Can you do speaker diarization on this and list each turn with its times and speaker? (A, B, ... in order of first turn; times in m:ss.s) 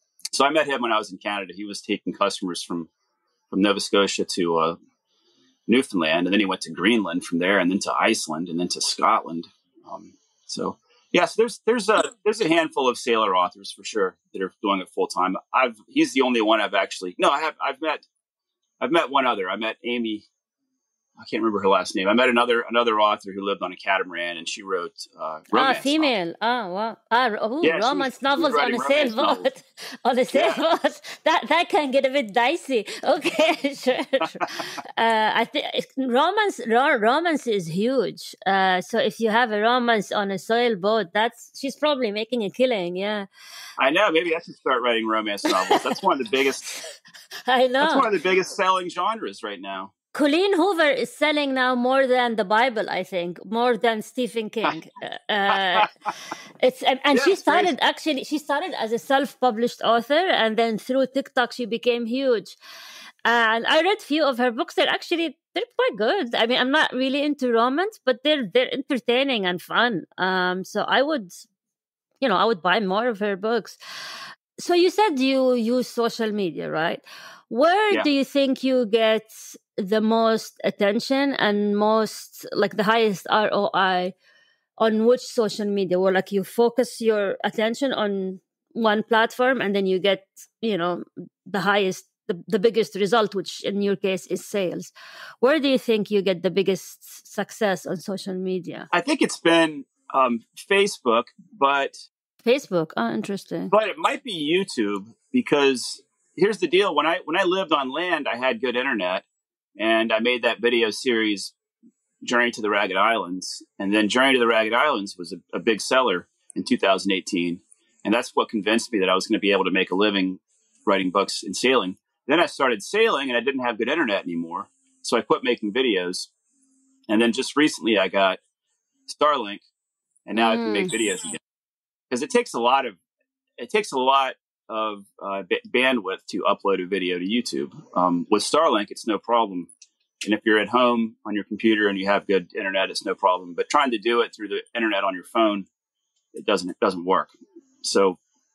0:00.3-0:02.9 A
0:03.5-0:04.8 A
0:05.7-0:18.0 A
0:18.8-0:20.3 A
0:21.2-0:26.1 A
0:25.5-0:43.3 B
0:27.6-0:29.5 A
0:30.3-0:30.6 A
0:43.8-0:46.6 A
0:45.7-0:45.9 B
0:46.6-0:48.1 B
0:47.8-0:49.9 A
0:50.1-0:55.9 B
0:55.5-0:56.1 A
0:56.6-1:02.6 B
0:57.1-0:57.7 A
1:03.2-1:11.5 B
1:12.2-1:13.8 B
1:14.6-1:24.1 B
1:24.8-1:38.9 B
1:38.9-1:42.0 A
1:42.4-1:43.7 B
1:43.7-1:49.2 A
1:49.8-1:51.5 A
1:52.2-2:06.3 A
2:07.1-2:08.4 A
2:09.1-2:09.6 A
2:10.3-2:11.4 A
2:10.4-2:10.9 B
2:12.1-2:13.0 A
2:13.6-2:19.7 A
2:20.2-2:25.7 A
2:26.4-2:28.2 A